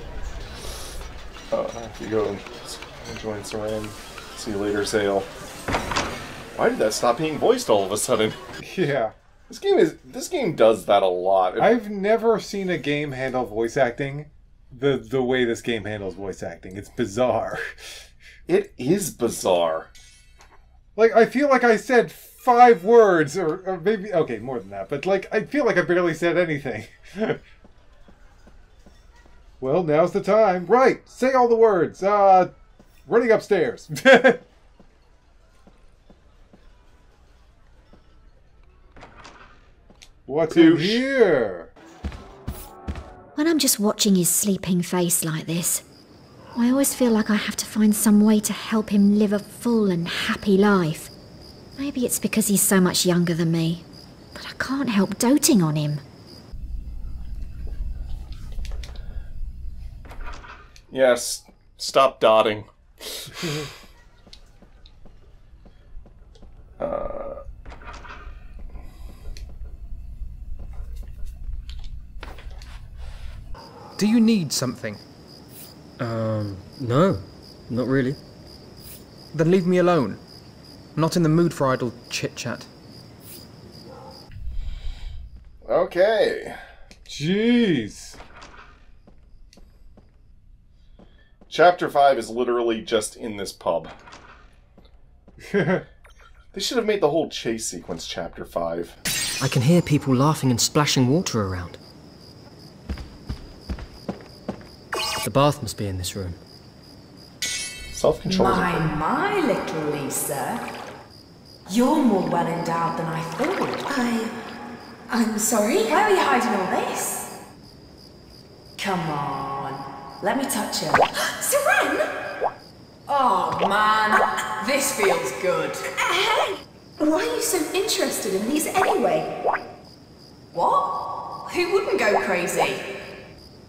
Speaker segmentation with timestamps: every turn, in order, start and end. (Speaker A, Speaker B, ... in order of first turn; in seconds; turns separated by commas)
Speaker A: 1.5-5.3, Speaker A: 6.5-8.4, Speaker B: 8.6-9.1, Speaker A: 9.5-11.8, Speaker B: 11.6-17.9, Speaker A: 18.5-19.9, Speaker B: 21.0-27.4, Speaker B: 29.6-32.5, Speaker B: 33.1-34.4, Speaker B: 40.3-41.7, Speaker A: 40.5-41.0, Speaker C: 43.4-45.8, Speaker C: 46.5-51.1, Speaker C: 51.8-56.0, Speaker A: 60.9-63.3, Speaker A: 66.8-67.4, Speaker D: 74.0-75.0, Speaker E: 76.0-78.2, Speaker D: 79.3-80.2, Speaker D: 81.0-82.7, Speaker A: 85.7-86.6, Speaker B: 87.1-88.2, Speaker A: 91.5-93.9, Speaker B: 95.4-95.8, Speaker A: 96.5-99.0, Speaker E: 99.4-101.8, Speaker E: 105.2-106.4, Speaker A: 107.9-108.9, Speaker F: 108.3-110.6, Speaker F: 111.7-113.9, Speaker G: 113.9-114.3, Speaker G: 115.1-116.0, Speaker F: 115.8-117.3, Speaker F: 118.8-121.2, Speaker G: 121.2-122.1, Speaker F: 123.1-125.9, Speaker G: 126.0-129.3, Speaker F: 127.6-128.3, Speaker F: 130.5-132.9